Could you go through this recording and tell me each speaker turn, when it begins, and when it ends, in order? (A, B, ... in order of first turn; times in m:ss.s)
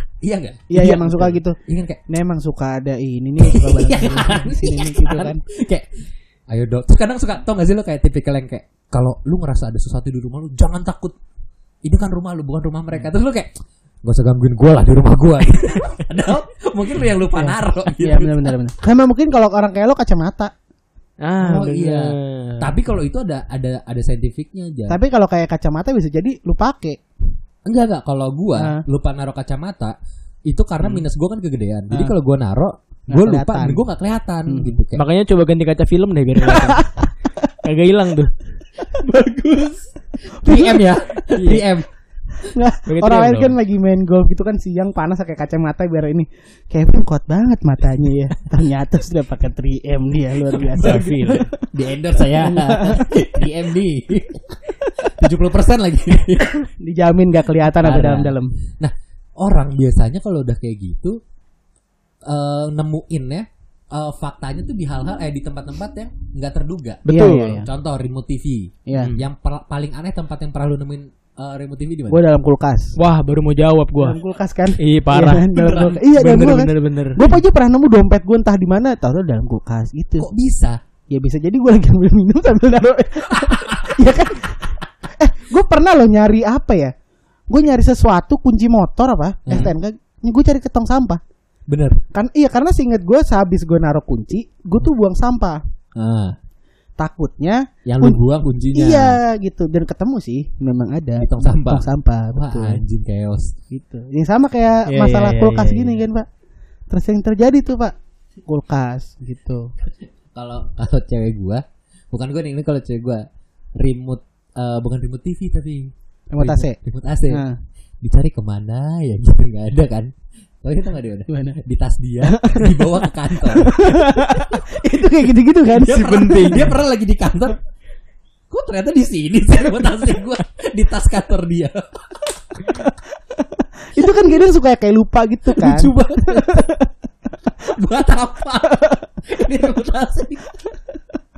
0:00.2-0:02.0 A
0:00.7-0:05.4 B
0:03.4-0:05.9 A
0:06.5-0:11.2 A
0:11.8-0:13.5 A
0:14.0-0:18.6 A
0:17.4-0:20.5 B
0:21.2-0:22.7 C
0:21.4-0:25.0 A
0:24.9-0:27.0 B
0:27.6-0:29.9 A
0:28.6-0:28.8 B
0:30.5-0:35.0 A
0:33.1-0:33.8 B
0:34.5-0:34.8 B
0:34.9-0:36.9 C
0:36.4-0:37.1 B
0:37.6-0:38.3 C
0:38.8-0:41.9 A
0:40.4-0:41.0 B
0:41.3-0:41.7 C
0:42.4-0:51.7 B
0:42.9-0:43.6 C
0:50.5-0:56.7 A
0:50.6-0:51.5 C
0:52.2-0:53.2 B
0:56.6-0:58.6 B
0:57.7-1:01.2 A
1:02.2-1:12.2 A
1:07.0-1:07.6 C
1:07.1-1:07.7 B
1:08.9-1:09.2 B
1:09.0-1:09.2 C
1:12.1-1:13.0 B
1:13.0-1:14.2 C
1:14.0-1:20.3 B
1:14.8-1:15.5 C
1:15.5-1:16.0 A
1:16.1-1:17.3 C
1:20.2-1:20.8 A
1:21.1-1:26.9 B
1:23.4-1:24.0 A
1:27.5-1:31.2 B
1:29.4-1:29.7 A
1:31.7-1:32.0 A
1:32.1-1:35.6 B
1:35.9-1:36.4 A
1:37.0-1:38.2 B
1:37.8-1:39.2 A
1:38.7-1:42.8 B
1:41.2-1:43.5 A
1:43.7-1:46.3 B
1:44.9-1:46.0 C
1:46.9-1:47.9 B
1:48.5-1:49.7 B
1:49.8-1:53.2 A
1:53.8-1:57.4 A
1:56.3-1:56.8 B
1:57.3-1:57.6 B
1:58.0-2:00.1 A
2:00.6-2:04.1 A
2:01.3-2:01.6 B
2:02.3-2:02.8 B
2:03.4-2:06.7 B
2:05.7-2:07.6 A
2:06.1-2:06.6 C
2:08.5-2:12.2 A
2:12.7-2:16.9 B
2:15.5-2:16.7 A
2:17.6-2:20.5 A